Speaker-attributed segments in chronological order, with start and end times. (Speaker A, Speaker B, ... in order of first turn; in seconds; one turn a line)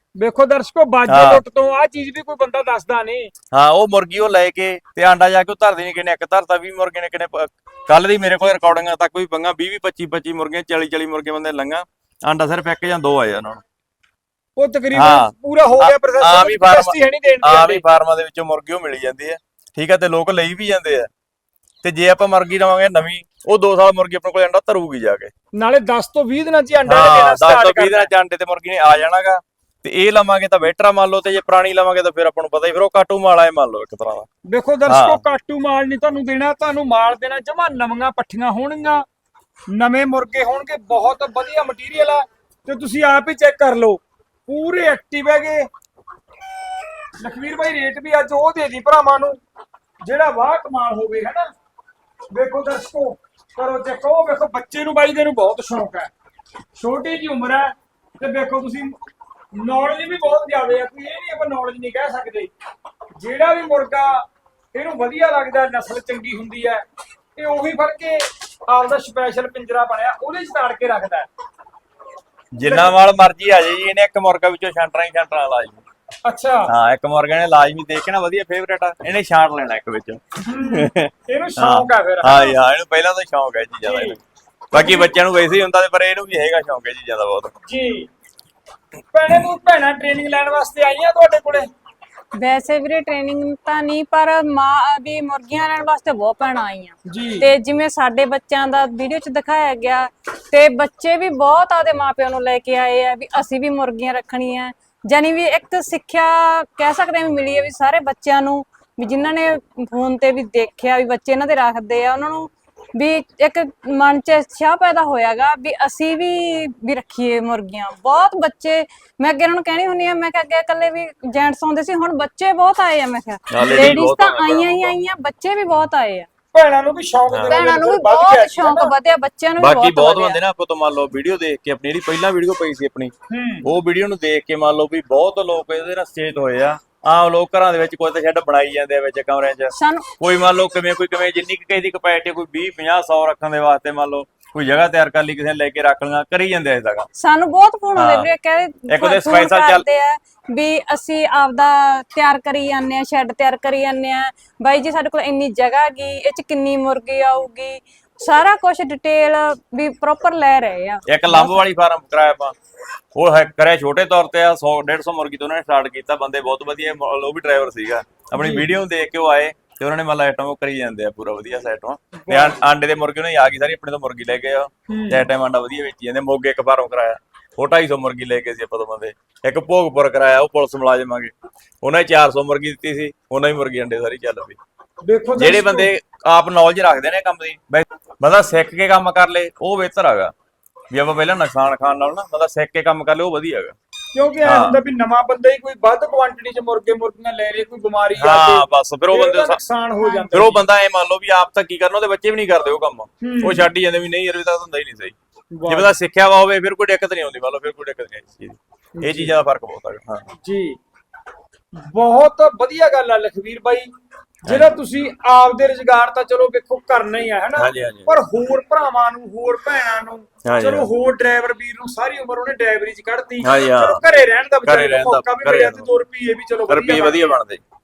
Speaker A: 0.2-3.3
Speaker B: 1.1-1.4
Speaker B: 3.5-13.6
Speaker A: 14.6-17.8
Speaker B: 14.9-21.1
Speaker B: 21.8-25.3
Speaker A: 25.6-28.1
Speaker B: 26.9-34.3
Speaker A: 34.5-39.0
Speaker B: 34.9-35.2
Speaker A: 39.7-45.7
Speaker A: 47.2-49.4
Speaker A: 50.0-51.5
Speaker A: 52.3-56.1
Speaker A: 56.8-59.0
Speaker A: 59.5-62.5
Speaker A: 63.2-66.8
Speaker A: 67.3-71.3
Speaker B: 72.5-75.8
Speaker A: 72.6-72.9
Speaker A: 76.2-76.7
Speaker B: 76.7-84.2
Speaker A: 80.5-82.6
Speaker A: 83.8-84.2
Speaker B: 84.7-87.5
Speaker A: 84.7-85.1
Speaker A: 87.7-88.1
Speaker A: 89.1-91.7
Speaker C: 92.3-126.3
Speaker A: 97.1-97.5
Speaker B: 123.5-125.0
Speaker A: 123.6-124.0
Speaker A: 126.5-128.9
Speaker B: 127.3-127.6
Speaker C: 127.5-130.4
Speaker B: 129.6-147.1
Speaker A: 133.3-133.7
Speaker C: 139.7-140.1
Speaker C: 147.2-161.7
Speaker B: 147.9-148.3
Speaker B: 148.9-149.8
Speaker B: 161.1-162.5
Speaker B: 163.1-184.6
Speaker A: 168.3-168.7
Speaker A: 172.2-172.6
Speaker A: 174.9-175.2
Speaker A: 185.0-185.9
Speaker B: 185.4-190.3
Speaker B: 190.9-193.7
Speaker A: 194.1-200.6
Speaker B: 194.4-194.8
Speaker B: 198.2-199.6
Speaker C: 200.0-200.3
Speaker B: 200.3-205.1
Speaker A: 203.2-203.7
Speaker A: 205.5-205.9
Speaker B: 205.7-210.3
Speaker A: 208.9-209.3
Speaker A: 210.4-210.8
Speaker A: 211.8-213.9
Speaker A: 214.4-227.3
Speaker B: 214.5-214.7
Speaker B: 217.6-218.1
Speaker B: 220.4-220.9
Speaker B: 223.4-224.0
Speaker B: 224.6-225.9
Speaker B: 226.7-227.6